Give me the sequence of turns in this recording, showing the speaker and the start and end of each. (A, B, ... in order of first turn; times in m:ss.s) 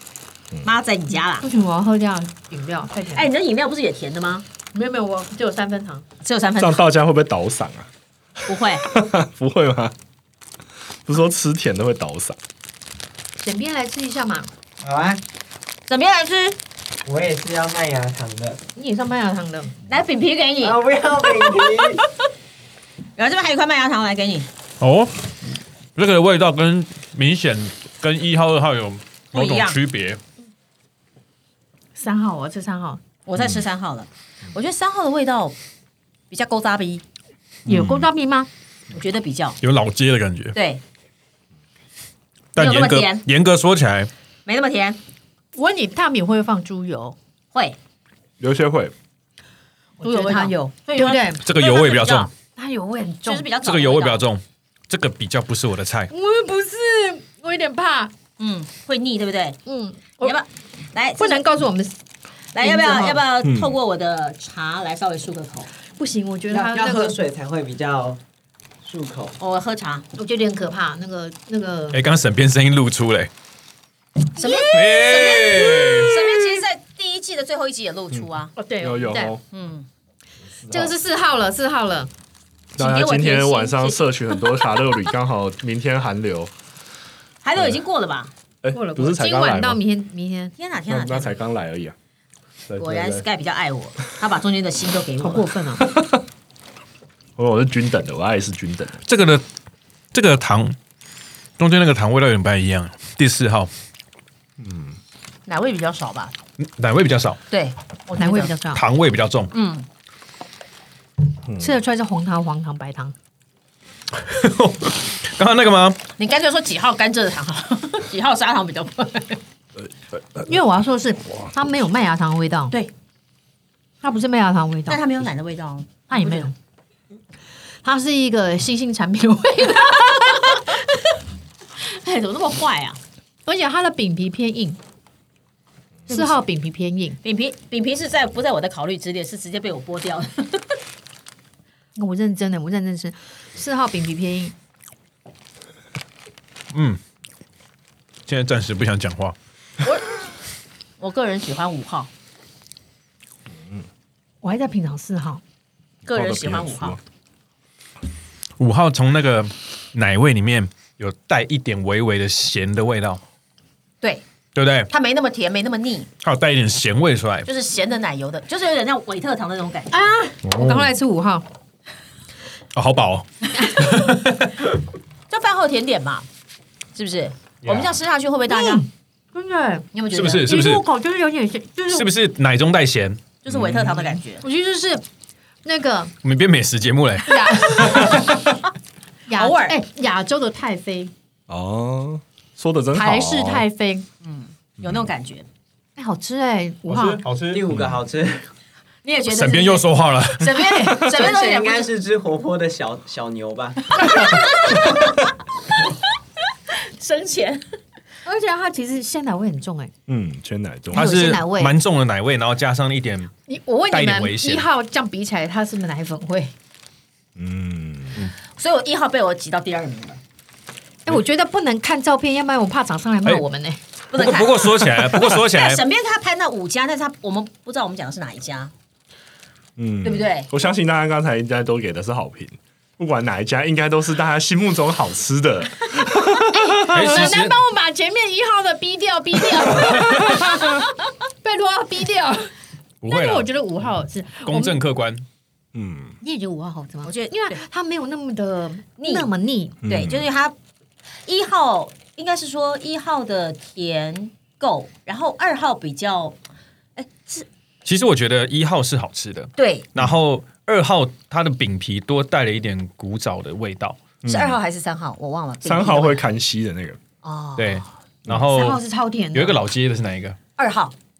0:00.6-0:01.5 A
0:01.4-0:03.3 B
0:03.1-0:04.4 A
0:04.7-0:06.0 B
0:06.2-0:06.8 A
0:06.6-0:07.9 C
0:08.4-0:09.9 C
0:08.5-0:08.8 A
0:11.0-0:12.4 C
0:13.4-0:14.5 B
0:14.8-0:15.2 D
0:15.9-0:16.6 A
0:17.0-0:18.6 D
0:18.8-0:19.7 B
0:19.9-0:21.4 A
0:20.6-0:22.0 D
0:23.2-0:24.5 A
0:24.8-0:25.2 E
0:26.0-0:30.2 E
0:29.3-0:29.8 A
0:32.0-0:33.0 B
0:33.2-0:35.5 A
0:36.3-0:37.0 A
0:37.7-0:38.5 B
0:37.7-0:38.0 C
0:38.9-0:39.6 A
0:39.6-0:40.6 E
0:40.5-0:40.8 A
0:42.6-0:43.2 A
0:42.6-0:44.1 E
0:44.4-0:45.0 A
0:45.6-0:47.2 B
0:48.4-0:48.9 C
0:50.0-0:51.4 B
0:50.0-0:52.3 A
0:51.4-0:52.3 E
0:52.5-0:53.5 B
0:53.2-0:54.2 A
0:53.6-0:56.1 E
0:56.1-0:58.1 B
0:58.4-0:59.6 A
0:59.6-1:00.4 B
1:00.2-1:01.5 A
1:01.2-1:01.9 B
1:02.5-1:05.7 A
1:02.6-1:03.2 B
1:03.4-1:03.7 C
1:06.0-1:07.2 B
1:06.5-1:08.2 D
1:08.8-1:09.4 D
1:09.4-1:10.0 A
1:10.2-1:12.0 B
1:11.9-1:13.3 E
1:14.4-1:14.7 B
1:14.4-1:18.5 A
1:14.7-1:16.4 E
1:18.6-1:19.3 B
1:18.8-1:19.4 C
1:19.5-1:19.8 A
1:20.6-1:20.9 C
1:20.7-1:22.1 B
1:22.8-1:26.5 C
1:22.8-1:24.7 A
1:27.4-1:28.3 A
1:28.6-1:29.8 C
1:28.7-1:30.5 B
1:30.6-1:31.3 A
1:30.9-1:32.0 C
1:32.7-1:33.2 C
1:32.8-1:35.5 A
1:35.2-1:35.9 B
1:35.8-1:36.2 C
1:37.4-1:39.0 C
1:39.0-1:39.4 E
1:40.1-1:40.8 E
1:41.6-1:43.7 E
1:44.6-1:45.0 C
1:45.5-1:46.3 A
1:46.6-1:47.4 E
1:47.5-1:48.5 A
1:48.2-1:48.8 B
1:48.7-1:49.5 E
1:49.5-1:49.8 A
1:51.5-1:51.7 C
1:51.6-1:53.1 B
1:54.1-1:56.0 E
1:56.2-1:59.4 A
1:59.8-2:00.5 C
2:00.5-2:02.7 B
2:04.0-2:05.0 B
2:04.9-2:06.5 A
2:06.1-2:06.5 B
2:07.8-2:10.8 B
2:11.8-2:13.0 A
2:13.4-2:14.8 B
2:16.1-2:16.4 A
2:16.1-2:17.2 B
2:17.2-2:20.7 A
2:22.0-2:24.5 B
2:26.7-2:27.0 E
2:28.3-2:29.3 E
2:29.8-2:30.3 A
2:31.0-2:32.1 A
2:34.4-2:35.4 B
2:36.0-2:37.0 A
2:36.1-2:37.0 C
2:38.6-2:43.2 E
2:44.5-2:44.9 E
2:44.9-2:46.1 A
2:46.2-2:47.5 E
2:47.4-2:50.0 A
2:49.9-2:51.4 B
2:50.5-2:50.8 C
2:52.7-2:54.6 E
2:55.3-2:56.2 A
2:56.9-2:58.8 A
2:57.6-2:57.9 E
2:58.5-2:59.9 B
2:59.9-3:00.5 A
3:00.1-3:00.8 E
3:00.4-3:02.1 B
3:01.9-3:03.9 E
3:03.4-3:04.4 A
3:04.4-3:05.0 B
3:05.6-3:06.1 B
3:06.2-3:08.3 E
3:07.2-3:08.4 B
3:09.3-3:11.1 B
3:09.4-3:09.8 A
3:11.5-3:13.6 C
3:12.9-3:14.0 B
3:14.2-3:15.4 A
3:16.0-3:17.2 B
3:16.9-3:17.6 E
3:17.5-3:18.4 D
3:19.0-3:21.9 A
3:19.3-3:20.9 E
3:20.9-3:24.4 D
3:24.1-3:24.4 B
3:24.1-3:25.3 A
3:26.7-3:27.6 A
3:28.2-3:29.9 B
3:30.1-3:31.1 C
3:30.9-3:33.3 E
3:30.9-3:31.7 B
3:33.5-3:36.5 B
3:33.9-3:34.7 E
3:37.4-3:38.2 C
3:38.6-3:40.2 A
3:41.0-3:43.8 B
3:44.1-3:48.7 A
3:44.2-3:45.8 E
3:49.8-3:57.1 C
3:50.0-3:50.5 A
3:56.5-4:02.5 B
3:56.9-3:57.6 E
4:03.0-4:03.5 E
4:03.1-4:04.8 B
4:04.5-4:05.2 E
4:05.7-4:06.1 C
4:06.2-4:09.8 B
4:07.0-4:07.6 A
4:09.0-4:09.3 A
4:09.8-4:10.3 C
4:09.8-4:10.5 A
4:11.2-4:16.4 A
4:17.0-4:17.5 A
4:17.8-4:24.1 E
4:19.6-4:19.9 A
4:24.2-4:24.6 C
4:24.2-4:26.2 A
4:25.6-4:27.0 C
4:27.2-4:27.8 A
4:27.6-4:28.8 E
4:28.4-4:29.6 B
4:29.3-4:30.4 E
4:30.6-4:30.9 A